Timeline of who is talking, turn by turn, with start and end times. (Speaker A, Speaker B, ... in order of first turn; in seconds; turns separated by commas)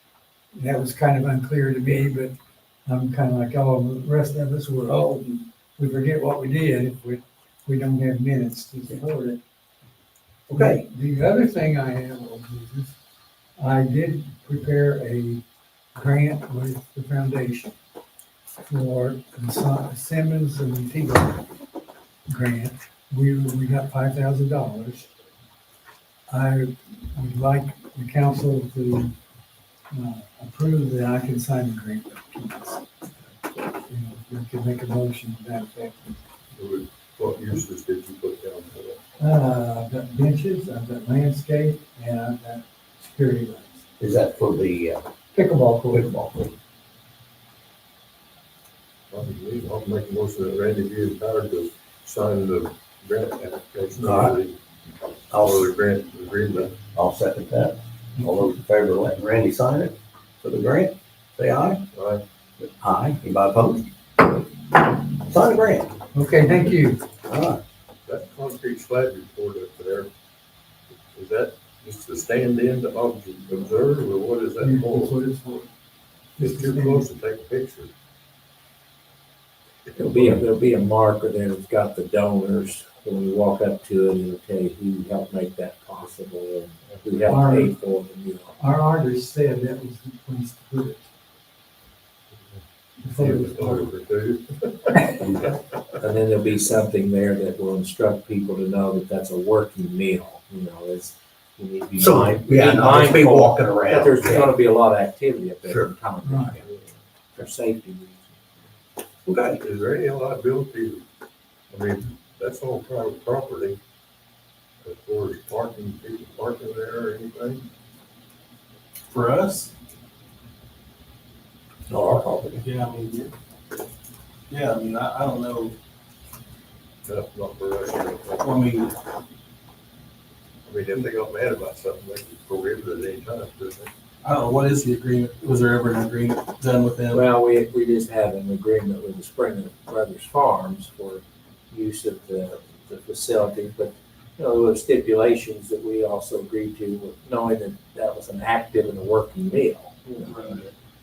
Speaker A: 0.5-2.3, Speaker A: 2.9-5.1, Speaker B: 4.9-5.4, Speaker A: 5.8-9.4, Speaker B: 10.5-10.8, Speaker A: 10.5-12.9, Speaker A: 13.6-15.4, Speaker A: 15.9-17.7, Speaker A: 18.7-21.5, Speaker A: 22.3-25.1, Speaker A: 26.3-29.1, Speaker A: 29.9-32.8, Speaker A: 33.8-36.2, Speaker C: 36.6-39.0, Speaker A: 39.2-43.8, Speaker B: 44.0-45.1, Speaker A: 45.3-46.1, Speaker B: 45.9-46.5, Speaker C: 49.1-54.6, Speaker B: 54.0-54.4, Speaker B: 55.3-55.7, Speaker C: 55.4-56.8, Speaker B: 56.9-61.8, Speaker C: 61.9-62.2, Speaker B: 62.6-63.9, Speaker B: 65.0-66.0, Speaker A: 66.1-67.0, Speaker B: 67.3-67.6, Speaker C: 68.1-70.1, Speaker C: 70.9-75.2, Speaker A: 74.6-75.7, Speaker A: 76.4-77.0, Speaker C: 76.4-77.9, Speaker D: 80.0-88.6, Speaker C: 80.1-80.4, Speaker A: 87.3-87.7, Speaker A: 88.6-91.1, Speaker A: 93.0-93.9, Speaker C: 93.0-95.3, Speaker B: 95.2-95.5, Speaker D: 96.0-108.4, Speaker B: 102.0-104.5, Speaker B: 105.7-105.9, Speaker A: 106.2-106.6, Speaker B: 109.3-109.6, Speaker C: 109.6-111.0, Speaker C: 111.7-113.8, Speaker C: 114.8-117.7, Speaker E: 119.1-119.7, Speaker B: 121.9-122.6, Speaker E: 122.6-123.3, Speaker E: 124.5-125.8, Speaker C: 127.1-128.5, Speaker E: 128.4-129.0, Speaker C: 130.7-133.9, Speaker E: 134.2-137.2, Speaker D: 137.1-150.5, Speaker E: 150.2-150.7